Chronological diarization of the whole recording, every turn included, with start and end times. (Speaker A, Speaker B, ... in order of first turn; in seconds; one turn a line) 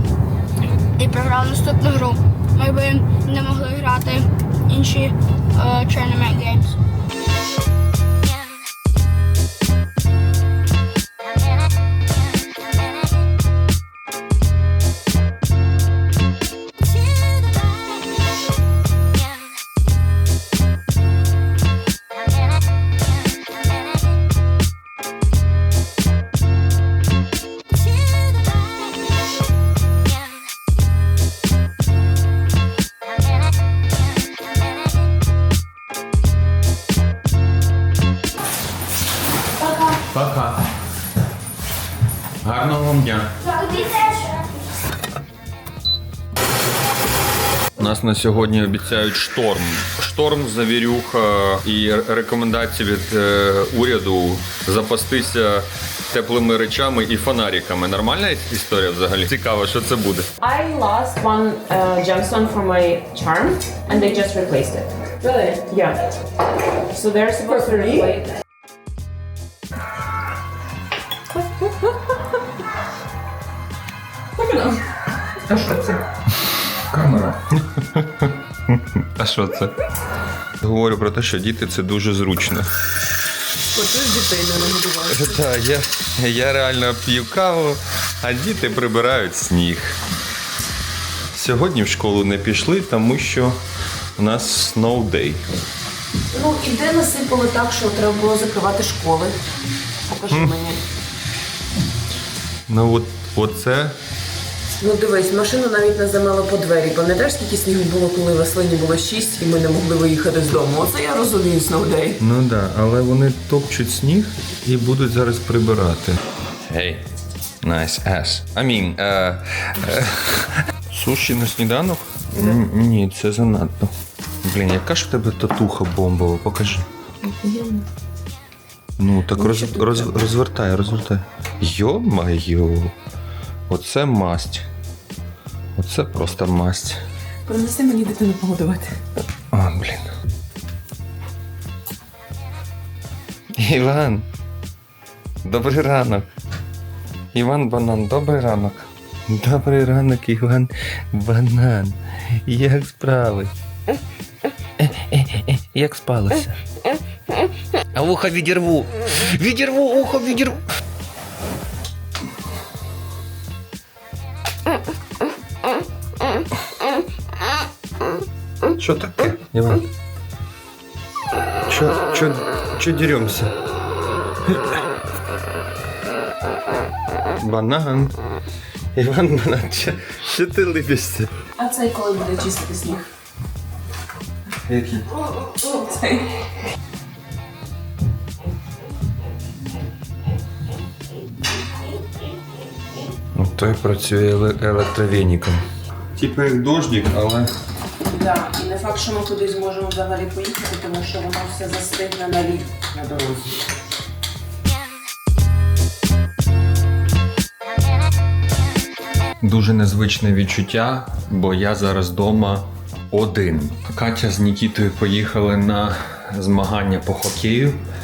Speaker A: 1.0-6.8
Speaker B: 40.0-40.6
Speaker B: 42.4-43.3
Speaker A: 43.6-44.3
Speaker B: 47.8-60.3
Speaker C: 60.4-66.0
Speaker C: 66.9-68.3
Speaker B: 75.5-76.0
Speaker B: 76.8-79.7
Speaker B: 80.6-82.7
Speaker C: 83.7-85.4
Speaker B: 85.1-90.0
Speaker B: 91.3-93.5
Speaker B: 94.2-95.4
Speaker C: 96.3-99.3
Speaker C: 100.1-100.8
Speaker B: 100.3-100.5
Speaker B: 102.7-104.0
Speaker C: 104.8-112.2
Speaker B: 112.2-117.0
Speaker B: 117.6-123.9
Speaker B: 124.4-126.8
Speaker C: 127.2-127.8
Speaker B: 129.0-132.9
Speaker C: 129.4-130.1
Speaker B: 133.7-134.7
Speaker B: 135.8-137.0
Speaker C: 137.5-138.9
Speaker B: 139.5-140.1
Speaker B: 143.6-144.2
Speaker B: 145.4-146.3
Speaker B: 147.3-153.5
Speaker B: 154.8-156.6
Speaker B: 157.9-160.6
Speaker B: 168.7-169.8
Speaker B: 171.7-173.5
Speaker B: 177.3-178.1
Speaker B: 178.9-181.3
Speaker C: 181.6-183.0
Speaker B: 184.7-185.0
Speaker C: 185.6-186.2
Speaker B: 193.3-195.6
Speaker B: 196.2-197.5
Speaker C: 198.0-203.6
Speaker B: 209.4-217.8